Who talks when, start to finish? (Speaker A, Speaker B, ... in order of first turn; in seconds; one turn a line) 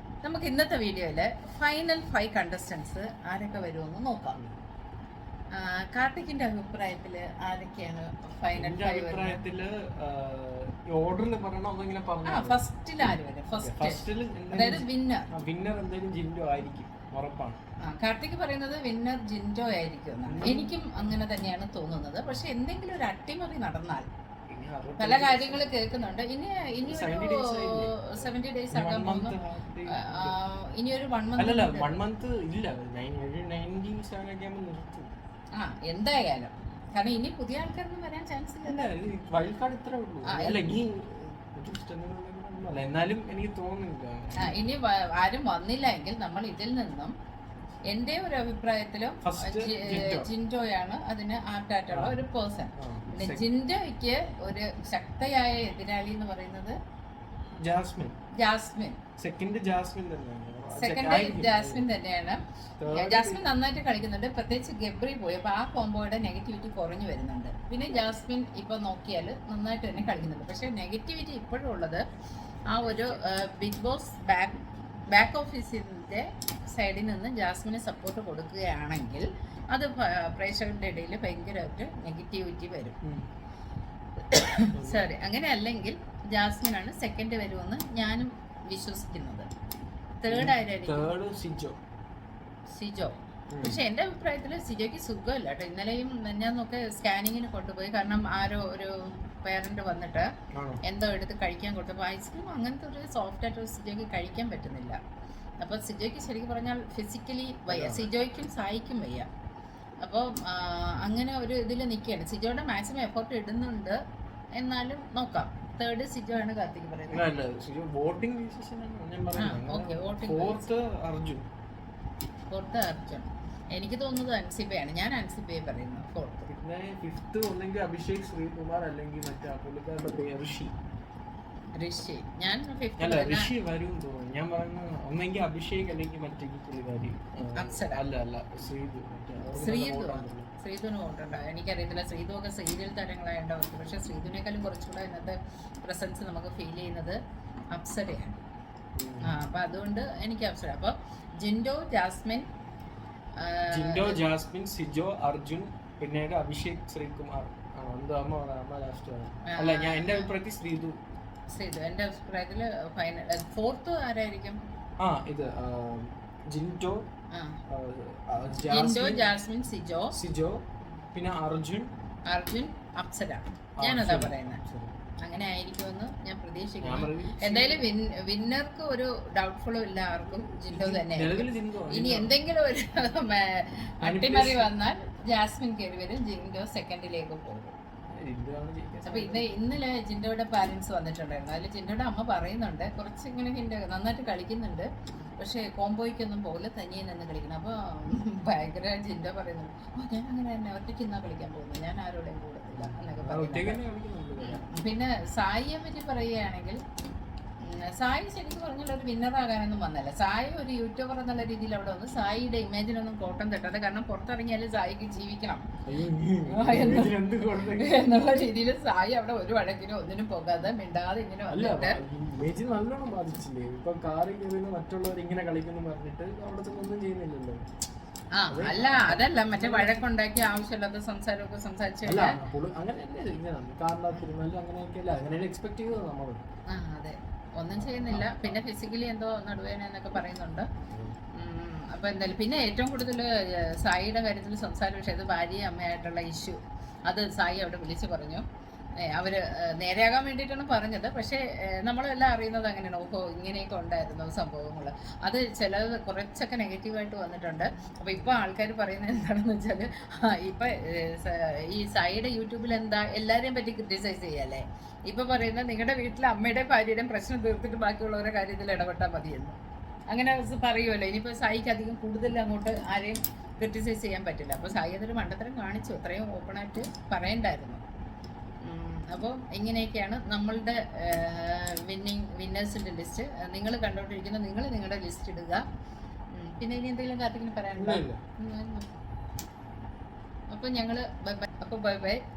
Speaker A: 0.2-4.4
Speaker A: 5.5-9.4
Speaker B: 8.5-17.6
Speaker A: 12.2-14.0
Speaker A: 14.5-15.3
Speaker A: 17.8-24.1
Speaker B: 20.3-20.8
Speaker B: 24.5-25.8
Speaker A: 25.0-29.4
Speaker B: 26.9-30.4
Speaker A: 29.9-32.0
Speaker B: 31.4-35.1
Speaker A: 35.6-38.9
Speaker B: 38.6-44.6
Speaker A: 40.2-40.6
Speaker A: 44.4-47.1
Speaker A: 47.9-56.8
Speaker B: 49.2-50.3
Speaker B: 51.9-52.2
Speaker B: 52.8-53.4
Speaker B: 57.6-58.2
Speaker A: 58.4-59.0
Speaker B: 59.2-61.9
Speaker A: 60.8-72.0
Speaker B: 62.8-63.5
Speaker A: 72.7-83.0
Speaker B: 72.8-73.2
Speaker A: 84.2-89.5
Speaker B: 84.7-85.1
Speaker A: 90.2-91.1
Speaker B: 90.3-91.8
Speaker A: 92.7-100.3
Speaker B: 93.5-93.8
Speaker B: 100.5-100.8
Speaker A: 100.8-105.0
Speaker A: 105.6-109.3
Speaker B: 107.7-108.1
Speaker A: 110.0-114.0
Speaker A: 114.5-117.3
Speaker B: 117.1-121.5
Speaker A: 119.3-120.7
Speaker A: 122.5-126.5
Speaker B: 126.5-130.8
Speaker A: 131.8-133.5
Speaker B: 133.0-140.5
Speaker A: 137.6-138.0
Speaker A: 139.6-147.2
Speaker A: 147.7-148.4
Speaker B: 149.0-149.3
Speaker A: 149.2-152.5
Speaker A: 153.4-154.2
Speaker B: 153.7-161.0
Speaker A: 159.5-160.3
Speaker A: 161.5-164.6
Speaker B: 165.0-167.1
Speaker A: 167.3-167.6
Speaker B: 167.7-169.3
Speaker A: 168.7-170.2
Speaker B: 170.1-171.9
Speaker A: 172.3-174.6
Speaker B: 173.8-174.9
Speaker A: 175.2-187.8
Speaker B: 176.8-177.9
Speaker B: 180.7-182.3
Speaker B: 184.0-184.7
Speaker B: 188.1-189.5
Speaker A: 189.1-203.8
Speaker B: 202.8-204.7
Speaker A: 204.4-206.8
Speaker A: 207.6-215.7
Speaker B: 215.8-218.5
Speaker A: 216.4-217.2
Speaker A: 217.7-222.0
Speaker B: 221.5-227.6
Speaker A: 228.3-232.4
Speaker B: 228.5-230.1
Speaker B: 232.1-236.4
Speaker A: 236.7-240.7
Speaker B: 237.8-238.6
Speaker B: 240.9-241.2
Speaker A: 241.3-248.4
Speaker A: 249.0-269.6
Speaker A: 270.1-277.8
Speaker A: 278.6-285.6
Speaker A: 286.3-288.9
Speaker B: 287.7-288.2
Speaker A: 290.5-292.2